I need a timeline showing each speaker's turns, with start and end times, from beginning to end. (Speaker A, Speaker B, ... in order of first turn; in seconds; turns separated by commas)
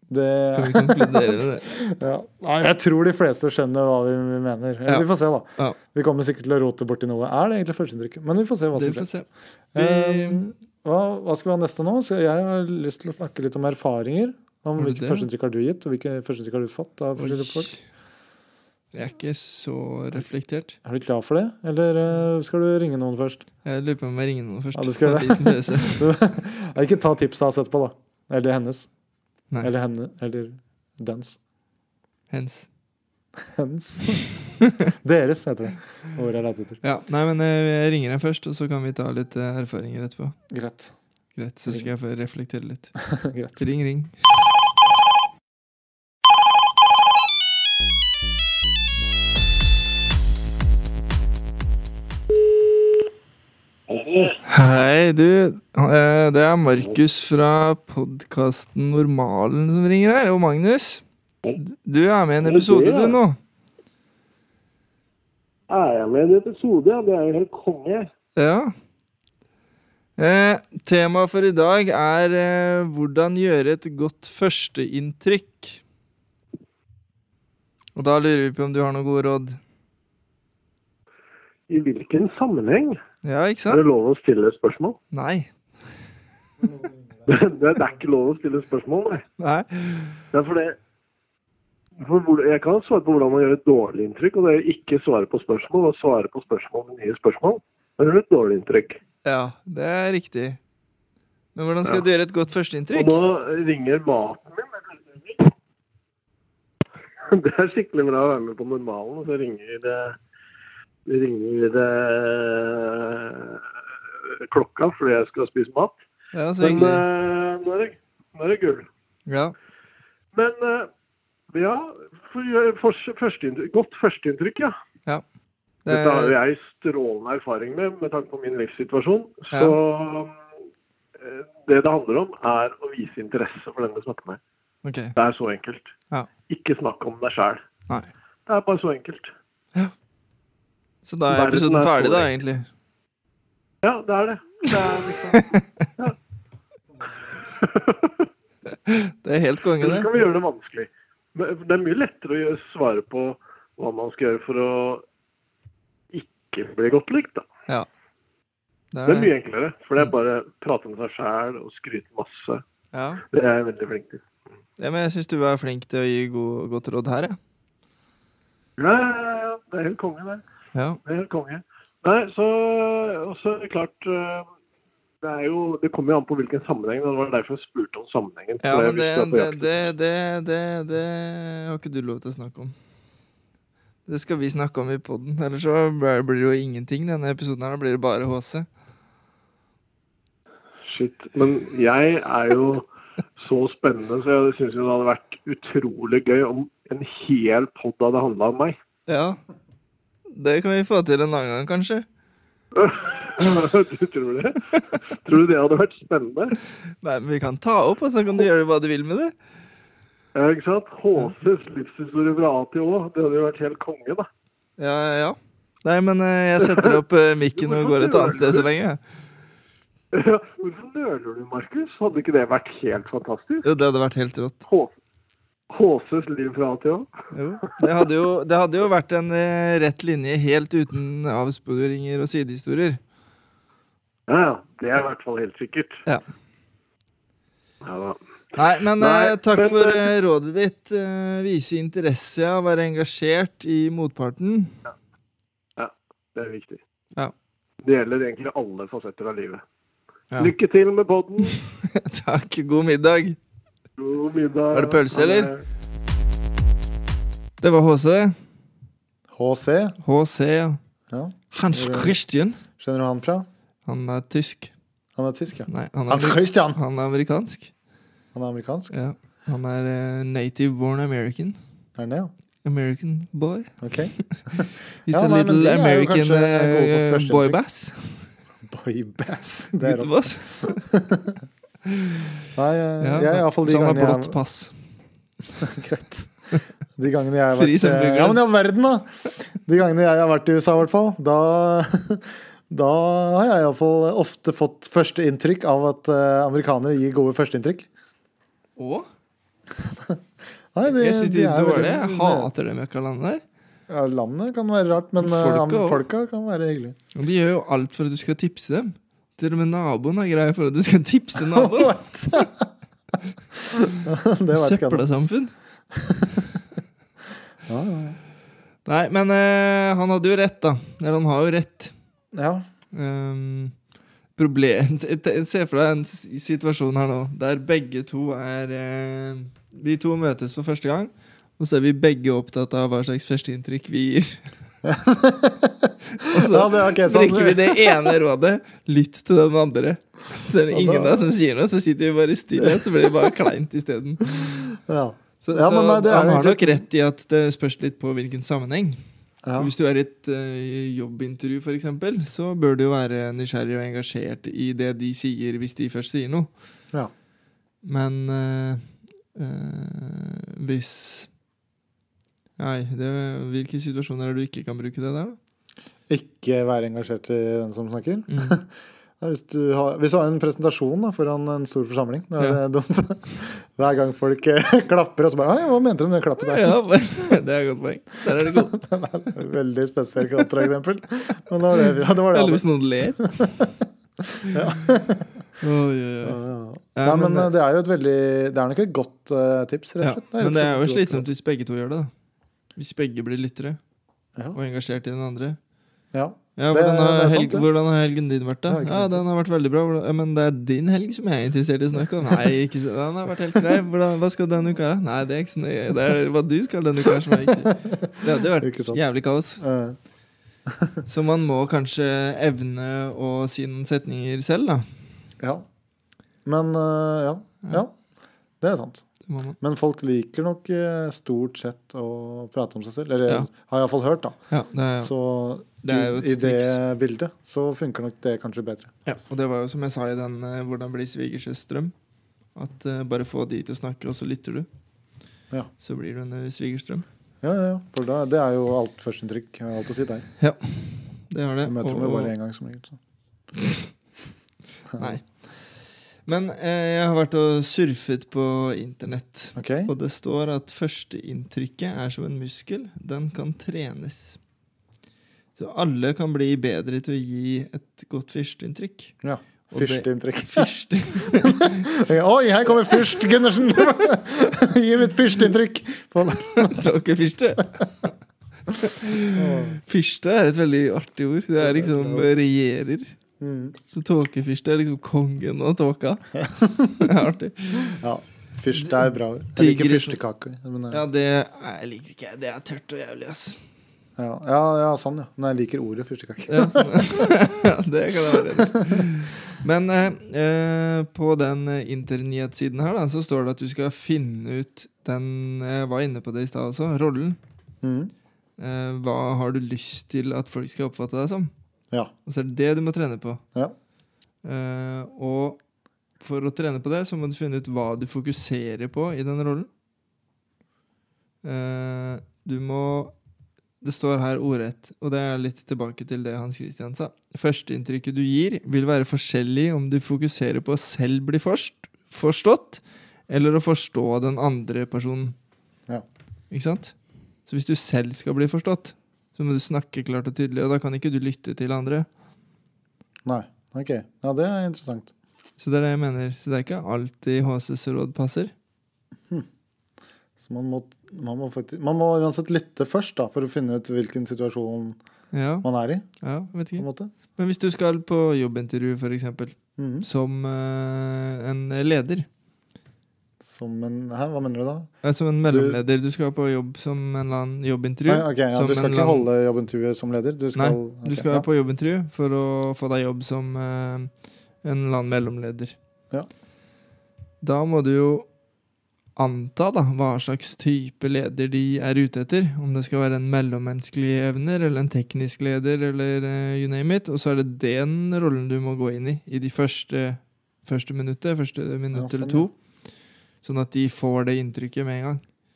Speaker A: 0.1-9.1, Speaker B: 0.5-1.8, Speaker B: 4.9-5.8, Speaker B: 8.8-10.5, Speaker A: 9.7-17.7, Speaker B: 14.8-15.3, Speaker B: 17.2-17.8, Speaker B: 18.9-20.8, Speaker A: 20.9-23.4, Speaker B: 23.6-26.1, Speaker A: 24.8-28.9, Speaker A: 29.6-31.4, Speaker B: 32.3-32.7, Speaker A: 33.4-34.2, Speaker B: 34.6-34.9, Speaker A: 35.0-36.8, Speaker B: 36.8-40.4, Speaker A: 40.5-40.9, Speaker B: 41.4-43.0, Speaker A: 43.1-43.6, Speaker B: 43.6-44.2, Speaker C: 53.9-54.4, Speaker B: 54.5-61.0, Speaker B: 61.5-63.4, Speaker C: 62.4-63.2, Speaker C: 65.7-68.1, Speaker B: 68.4-68.7, Speaker B: 70.2-75.8, Speaker B: 78.0-79.6, Speaker C: 81.7-83.0, Speaker B: 83.2-83.8, Speaker C: 83.7-85.0, Speaker B: 85.1-85.5, Speaker C: 87.3-89.2, Speaker B: 89.4-90.2, Speaker C: 90.3-90.8, Speaker C: 92.0-99.0, Speaker B: 99.2-100.6, Speaker B: 101.5-103.2, Speaker C: 102.9-105.5, Speaker C: 107.2-110.2, Speaker C: 111.1-113.6, Speaker C: 114.3-116.0, Speaker B: 116.3-117.0, Speaker C: 116.6-118.9, Speaker B: 119.3-119.5, Speaker C: 120.3-120.9, Speaker C: 121.5-124.8, Speaker B: 125.8-126.4, Speaker C: 125.9-130.4, Speaker B: 129.5-129.8, Speaker C: 131.2-134.4, Speaker B: 134.8-135.2, Speaker C: 135.2-135.9, Speaker C: 136.5-137.6, Speaker C: 138.5-139.3, Speaker B: 141.0-142.7, Speaker C: 141.3-142.3, Speaker C: 143.8-146.2, Speaker B: 145.3-145.7, Speaker C: 147.4-148.3, Speaker B: 148.7-150.1, Speaker C: 149.8-155.0, Speaker C: 156.1-157.5, Speaker B: 158.9-159.3, Speaker C: 159.1-162.6, Speaker B: 162.9-163.2, Speaker C: 163.3-164.2, Speaker B: 164.8-167.4, Speaker C: 168.8-170.4, Speaker B: 170.8-171.0, Speaker C: 171.1-174.5, Speaker C: 175.2-179.9, Speaker B: 178.6-182.7, Speaker B: 184.1-188.7, Speaker C: 190.9-192.9, Speaker C: 193.4-198.8, Speaker B: 199.1-199.4, Speaker B: 200.3-202.1, Speaker C: 202.7-206.6, Speaker B: 207.0-209.3, Speaker C: 210.3-214.3, Speaker B: 214.8-219.0, Speaker C: 216.6-216.9, Speaker C: 217.6-218.7, Speaker C: 220.1-223.7, Speaker B: 223.6-224.6, Speaker C: 225.7-227.1, Speaker B: 227.3-233.0, Speaker C: 234.3-236.0, Speaker C: 237.8-240.1, Speaker B: 238.6-244.8, Speaker C: 245.8-246.8, Speaker C: 247.8-249.6, Speaker C: 250.4-251.6, Speaker B: 251.8-253.4, Speaker C: 254.0-255.6, Speaker B: 254.7-255.5, Speaker B: 257.6-258.4, Speaker A: 259.3-260.0, Speaker B: 260.0-260.8, Speaker A: 261.1-262.1, Speaker B: 261.5-262.6, Speaker A: 262.8-263.5, Speaker B: 263.9-264.7, Speaker A: 265.2-266.8, Speaker B: 265.7-267.7, Speaker A: 268.3-268.9, Speaker B: 268.9-271.6, Speaker A: 272.0-272.3, Speaker B: 272.6-274.5, Speaker A: 273.8-277.6, Speaker B: 275.1-278.3, Speaker A: 278.7-281.4, Speaker B: 279.8-280.8, Speaker B: 281.9-282.4, Speaker A: 282.6-284.4, Speaker B: 283.0-284.7, Speaker A: 285.6-286.3, Speaker A: 287.0-297.9, Speaker B: 287.6-288.4, Speaker B: 298.8-299.1, Speaker A: 299.9-300.2, Speaker A: 300.7-302.5, Speaker B: 300.9-303.4, Speaker A: 303.9-307.0, Speaker B: 305.2-306.0, Speaker B: 307.1-312.5, Speaker A: 311.4-312.7, Speaker A: 314.0-315.1, Speaker B: 314.5-315.5, Speaker A: 315.9-316.5, Speaker A: 317.7-318.2, Speaker B: 318.9-321.9, Speaker A: 322.3-322.6, Speaker B: 322.9-323.8, Speaker B: 324.4-334.5, Speaker A: 334.8-338.2, Speaker B: 336.2-344.6, Speaker A: 340.7-341.3, Speaker A: 342.6-342.9, Speaker A: 344.2-346.8, Speaker B: 345.4-349.0, Speaker A: 349.4-349.7, Speaker B: 349.6-356.5, Speaker B: 357.8-361.3, Speaker B: 362.6-365.4, Speaker A: 366.1-368.7, Speaker B: 368.3-368.6, Speaker A: 369.2-376.7, Speaker B: 376.5-378.8, Speaker A: 378.6-382.6, Speaker B: 382.3-383.5, Speaker A: 383.4-385.3, Speaker B: 384.5-384.8, Speaker B: 385.6-386.4, Speaker A: 386.2-391.3, Speaker B: 387.0-387.5, Speaker B: 390.0-392.1, Speaker B: 392.8-393.8, Speaker B: 394.5-395.6, Speaker A: 396.1-397.7, Speaker B: 396.6-409.6, Speaker A: 398.7-399.2, Speaker A: 407.8-408.0, Speaker A: 408.6-409.0, Speaker A: 409.6-410.0, Speaker A: 410.7-411.0, Speaker B: 411.1-414.9, Speaker A: 415.4-415.7, Speaker A: 416.5-417.9, Speaker A: 418.6-419.1, Speaker B: 419.3-419.6, Speaker A: 419.6-424.4, Speaker B: 424.5-425.1, Speaker A: 425.0-428.9, Speaker B: 425.8-426.8, Speaker B: 429.1-431.9, Speaker B: 432.6-434.7, Speaker B: 435.8-437.1, Speaker A: 437.4-440.3, Speaker B: 440.4-442.3, Speaker A: 441.6-443.0, Speaker A: 444.9-445.2, Speaker B: 445.0-445.3, Speaker B: 446.3-454.4, Speaker A: 449.6-449.9, Speaker B: 455.6-459.2, Speaker A: 459.2-466.8, Speaker B: 459.7-461.9, Speaker B: 466.5-468.1, Speaker B: 468.7-473.2, Speaker A: 469.4-469.8, Speaker A: 471.6-472.3, Speaker A: 473.4-473.8, Speaker B: 473.9-476.2, Speaker A: 476.4-477.1, Speaker B: 477.0-478.0, Speaker A: 477.8-481.0, Speaker B: 478.7-480.2, Speaker B: 480.9-483.6, Speaker A: 484.2-487.3, Speaker B: 486.5-497.4, Speaker A: 488.3-489.1, Speaker A: 497.8-498.1, Speaker B: 498.6-501.5, Speaker B: 502.3-503.4, Speaker B: 504.4-505.6, Speaker B: 506.2-509.7, Speaker B: 511.4-513.1, Speaker B: 513.8-525.4, Speaker B: 526.5-527.0, Speaker B: 527.5-532.1, Speaker A: 533.2-535.1, Speaker B: 535.6-538.5, Speaker A: 540.4-545.0, Speaker B: 545.3-545.7, Speaker A: 545.6-546.1, Speaker B: 546.2-552.3, Speaker A: 546.8-547.1, Speaker A: 549.8-550.1, Speaker A: 553.5-554.9, Speaker B: 555.0-559.3, Speaker A: 555.5-555.8, Speaker A: 558.1-561.5, Speaker B: 560.5-564.1, Speaker B: 564.6-565.8, Speaker B: 567.4-568.3, Speaker B: 569.2-582.5, Speaker A: 581.9-582.5, Speaker B: 583.4-585.2